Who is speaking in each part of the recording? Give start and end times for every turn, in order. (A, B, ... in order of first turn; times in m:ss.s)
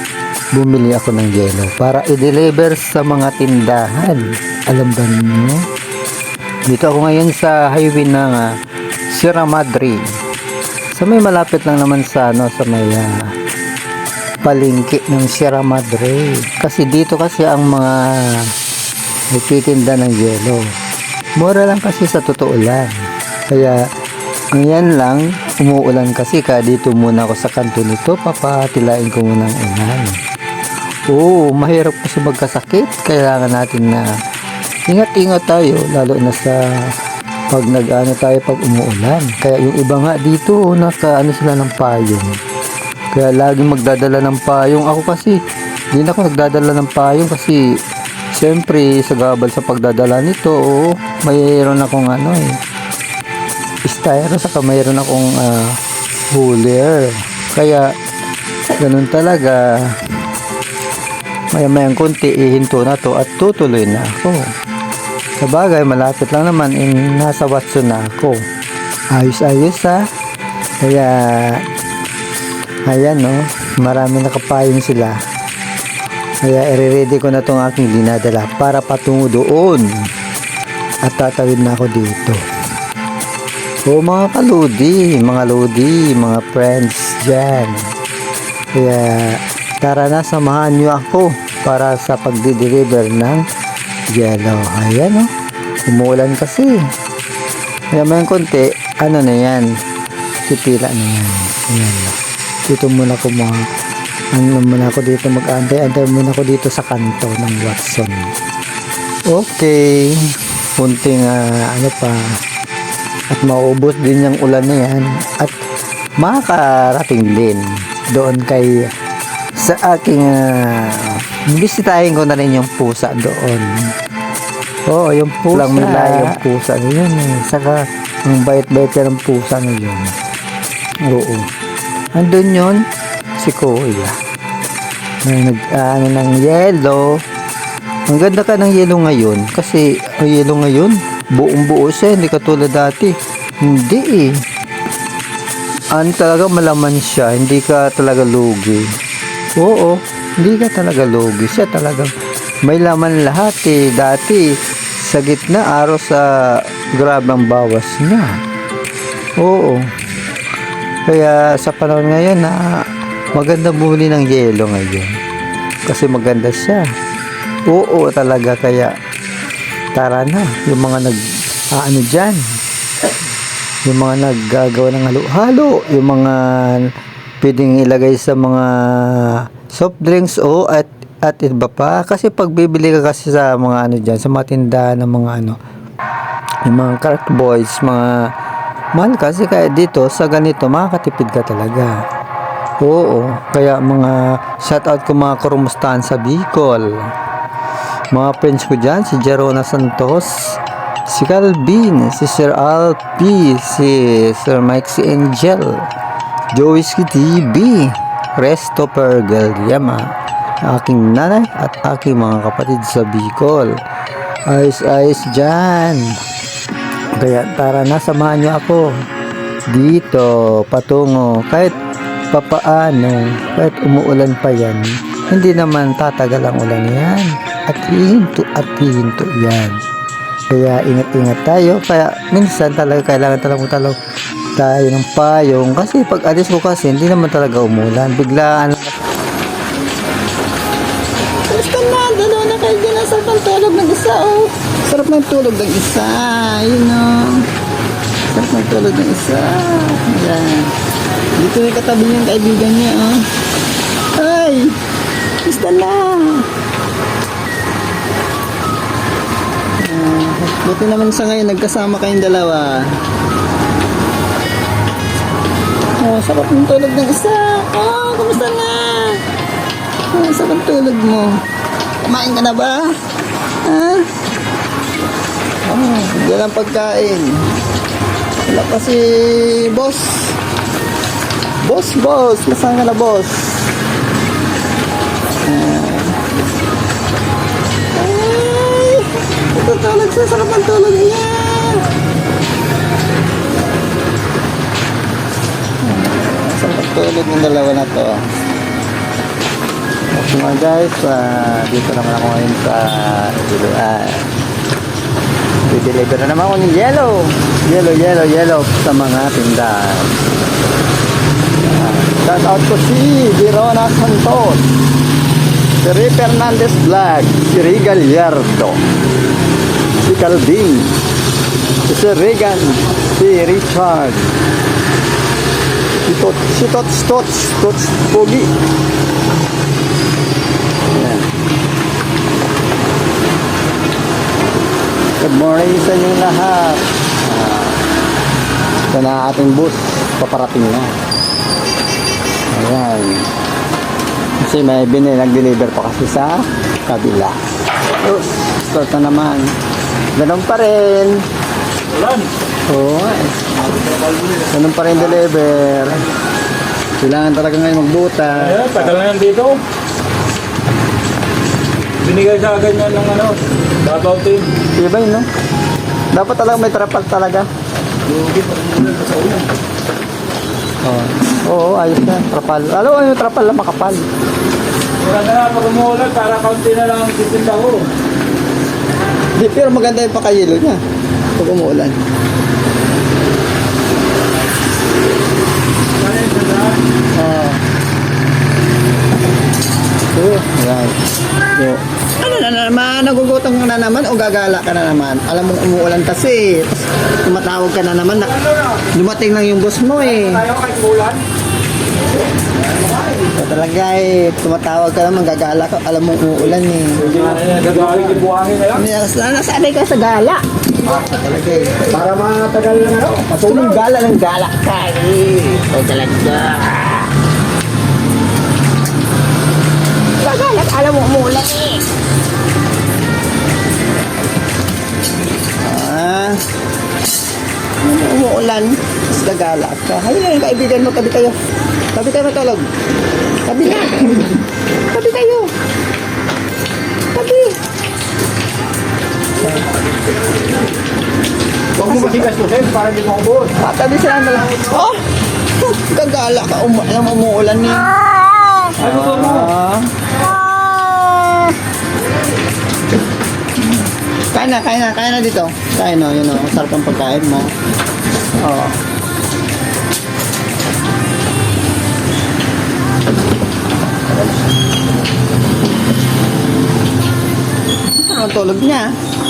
0:00.5-0:05.6 A
0:06.7-0:08.5 A
0:09.1-0:10.1 A
0:10.9-0:13.1 A
0:14.4-0:18.5 A
0:19.3-0:20.6 A
0:21.4-0:22.9 A
0:23.5-0:23.8 A
0:24.5-0:30.2 A
0:31.1-0:34.1 A
0:34.9-0:36.6 A
0:37.5-0:42.4 A
0:43.1-0:45.4 A
0:45.9-0:47.6 A
0:48.3-0:52.6 A
0:53.8-0:55.8 A
0:56.3-0:57.9 A
0:58.8-1:00.0 A
1:01.5-1:04.5 A
1:05.4-1:08.4 A
1:09.1-1:10.0 A
1:10.8-1:11.6 A
1:12.9-1:15.2 A
1:16.4-1:19.9 A
1:21.1-1:22.4 A
1:23.9-1:27.8 A
1:28.8-1:33.4 A
1:34.1-1:35.3 A
1:35.9-1:36.8 A
1:37.9-1:39.7 A
1:40.5-1:42.2 A
1:42.7-1:43.6 A
1:44.3-1:48.3 A
1:49.3-1:52.2 A
1:53.3-1:55.6 A
1:56.2-1:58.9 A
1:59.6-2:03.7 A
2:04.9-2:10.1 A
2:11.1-2:11.5 A
2:12.2-2:12.8 A
2:13.4-2:14.2 A
2:15.2-2:17.1 A
2:18.1-2:24.4 A
2:25.9-2:28.9 A
2:29.6-2:32.1 A
2:32.6-2:38.3 A
2:39.4-2:39.9 A
2:41.1-2:42.8 A
2:43.3-2:45.2 A
2:45.9-2:46.9 A
2:47.7-2:48.9 A
2:50.0-2:51.2 A
2:51.7-2:52.4 A
2:53.9-2:56.9 A
2:57.4-3:05.6 A
3:06.7-3:08.1 A
3:09.0-3:11.9 A
3:12.8-3:17.1 A
3:18.1-3:20.6 A
3:21.1-3:25.8 A
3:26.5-3:30.1 A
3:30.6-3:33.7 A
3:34.5-3:36.1 A
3:37.2-3:38.9 A
3:39.7-3:41.7 A
3:42.3-3:49.8 A
3:50.5-3:54.0 A
3:54.6-3:59.0 A
4:01.5-4:07.4 B
4:08.3-4:10.7 B
4:11.4-4:13.2 B
4:14.2-4:14.8 B
4:15.4-4:16.5 B
4:19.8-4:22.9 B
4:26.0-4:29.2 B
4:30.1-4:31.4 B
4:32.0-4:33.0 B
4:33.6-4:34.1 B
4:35.7-4:37.5 B
4:38.4-4:40.4 B
4:41.6-4:43.6 B
4:45.4-4:46.2 B
4:47.9-4:51.8 B
4:55.8-4:58.3 B
5:00.1-5:04.3 B
5:05.7-5:10.1 B
5:11.7-5:14.7 B
5:15.8-5:18.8 B
5:20.0-5:21.0 B
5:21.9-5:24.3 B
5:26.1-5:28.5 B
5:30.9-5:31.3 B
5:35.2-5:37.8 B
5:38.9-5:40.9 B
5:42.5-5:43.3 B
5:44.4-5:49.5 B
5:50.2-5:51.2 B
5:51.9-5:52.3 C
5:52.7-5:53.7 B
5:54.3-5:56.0 B
5:57.0-5:59.0 B
5:58.4-5:59.6 C
6:02.0-6:04.6 C
6:04.7-6:05.3 B
6:06.1-6:07.5 B
6:08.1-6:09.5 C
6:10.8-6:14.1 B
6:15.0-6:17.9 C
6:19.4-6:20.8 B
6:21.4-6:22.0 B
6:26.0-6:26.8 C
6:27.1-6:27.6 B
6:30.1-6:31.0 B
6:31.6-6:40.5 B
6:40.5-6:41.2 C
6:43.2-6:47.6 B
6:47.1-6:48.8 C
6:48.7-6:52.3 B
6:52.3-6:53.3 C
6:53.3-6:57.1 B
7:00.2-7:01.9 B
7:05.6-7:06.4 B
7:07.8-7:11.4 B
7:11.9-7:12.7 B
7:13.4-7:15.5 B
7:17.1-7:17.6 B
7:21.8-7:22.4 B
7:22.0-7:23.4 C
7:23.4-7:25.0 B
7:25.6-7:31.6 B
7:28.9-7:29.5 C
7:34.3-7:37.5 B
7:38.4-7:38.8 B
7:47.9-7:49.0 B